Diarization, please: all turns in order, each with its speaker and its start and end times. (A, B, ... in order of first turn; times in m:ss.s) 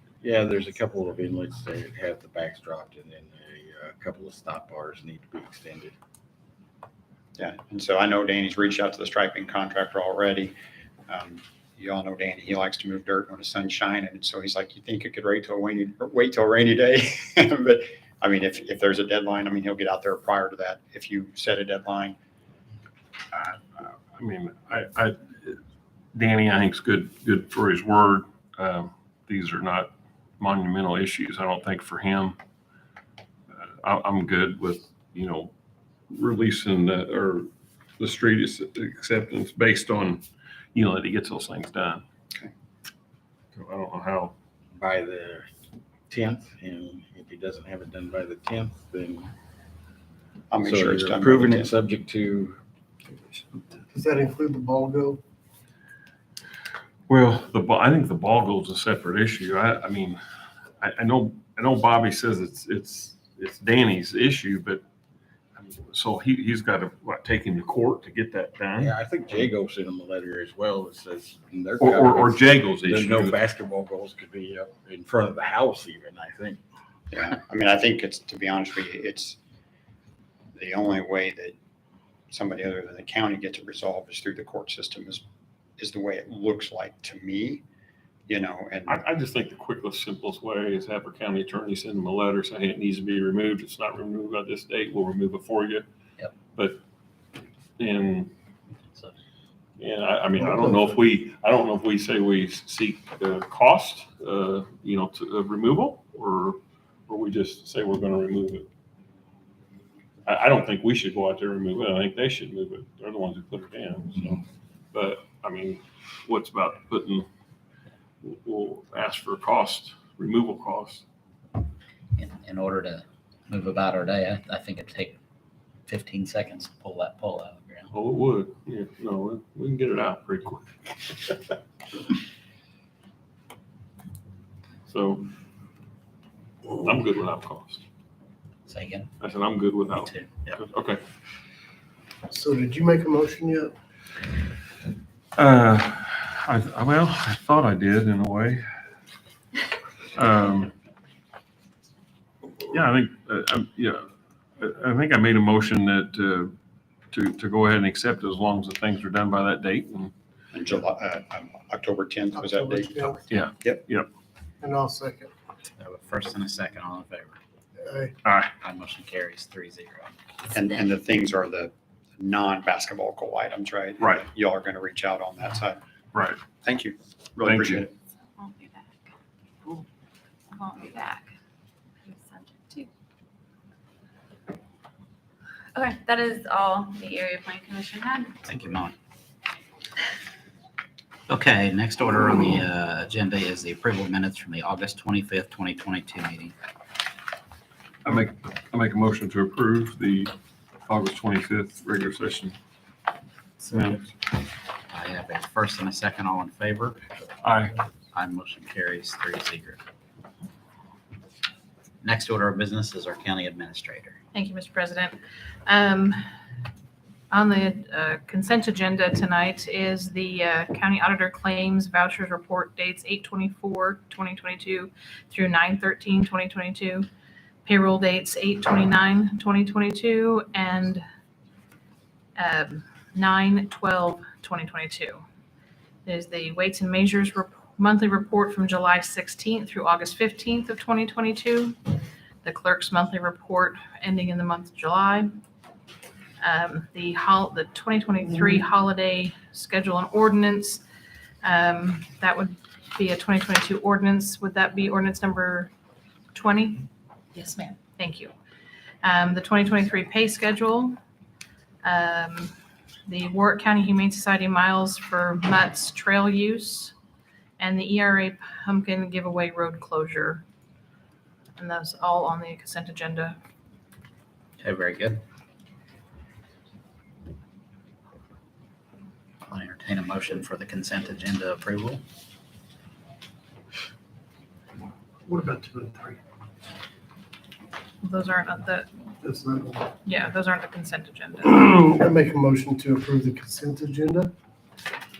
0:00.2-0:05.9 A
0:07.4-0:10.5 B
0:11.1-0:22.2 B
0:23.3-0:25.6 C
0:26.1-0:32.4 C
0:33.6-0:35.5 C
0:36.1-0:40.2 C
0:40.7-0:42.0 C
0:43.6-0:44.4 C
0:44.8-0:45.5 A
0:46.1-0:49.3 A
0:50.5-0:51.7 B
0:50.6-0:52.6 A
0:53.9-0:55.2 D
0:57.1-1:00.2 C
1:00.8-1:04.8 C
1:05.6-1:08.9 C
1:08.8-1:16.6 A
1:11.8-1:13.4 C
1:17.1-1:19.4 B
1:20.6-1:21.6 B
1:22.3-1:25.2 B
1:25.8-1:27.6 B
1:28.3-1:29.0 B
1:28.9-1:35.8 C
1:36.5-1:36.8 C
1:37.8-1:38.3 C
1:39.8-1:48.7 C
1:40.4-1:40.8 D
1:50.3-1:54.4 C
1:54.9-1:57.3 C
1:58.2-2:01.0 C
2:02.2-2:05.2 E
2:05.9-2:07.9 E
2:07.9-2:10.7 C
2:14.9-2:15.3 C
2:16.8-2:17.8 C
2:18.7-2:19.1 E
2:19.2-2:21.0 C
2:19.9-2:20.3 E
2:22.3-2:23.7 D
2:25.4-2:28.6 C
2:30.1-2:30.7 C
2:32.7-2:34.1 C
2:34.6-2:36.6 C
2:37.1-2:40.1 C
2:40.5-2:43.8 B
2:42.4-2:43.2 D
2:43.3-2:44.1 C
2:44.6-2:45.3 D
2:45.8-2:47.4 E
2:47.8-2:48.1 D
2:48.2-2:48.5 C
2:48.6-2:50.9 E
2:50.5-2:55.8 B
2:56.1-2:56.4 C
2:56.6-2:57.9 B
2:57.4-2:57.9 C
2:58.4-2:58.9 F
3:00.5-3:01.3 F
3:02.0-3:02.9 F
3:05.7-3:08.4 F
3:08.4-3:09.0 E
3:11.3-3:16.5 E
3:18.0-3:20.3 C
3:20.9-3:22.6 C
3:23.6-3:24.0 E
3:23.7-3:24.1 C
3:24.9-3:27.0 E
3:27.4-3:27.8 C
3:28.1-3:29.8 E
3:32.0-3:34.2 E
3:34.3-3:36.2 G
3:37.3-3:47.1 G
3:47.6-3:51.0 G
3:52.4-3:55.2 G
3:56.1-4:05.3 G
4:06.4-4:10.8 G
4:11.4-4:15.7 G
4:16.3-4:18.3 G
4:19.0-4:21.0 G
4:21.8-4:22.5 G
4:23.1-4:26.9 G
4:27.6-4:30.4 G
4:31.6-4:33.4 G
4:34.6-4:35.2 E
4:39.4-4:42.0 E
4:45.3-4:46.2 D
4:48.0-4:48.9 G
4:49.2-4:49.9 D
4:50.0-4:51.8 G
4:51.7-4:54.3 D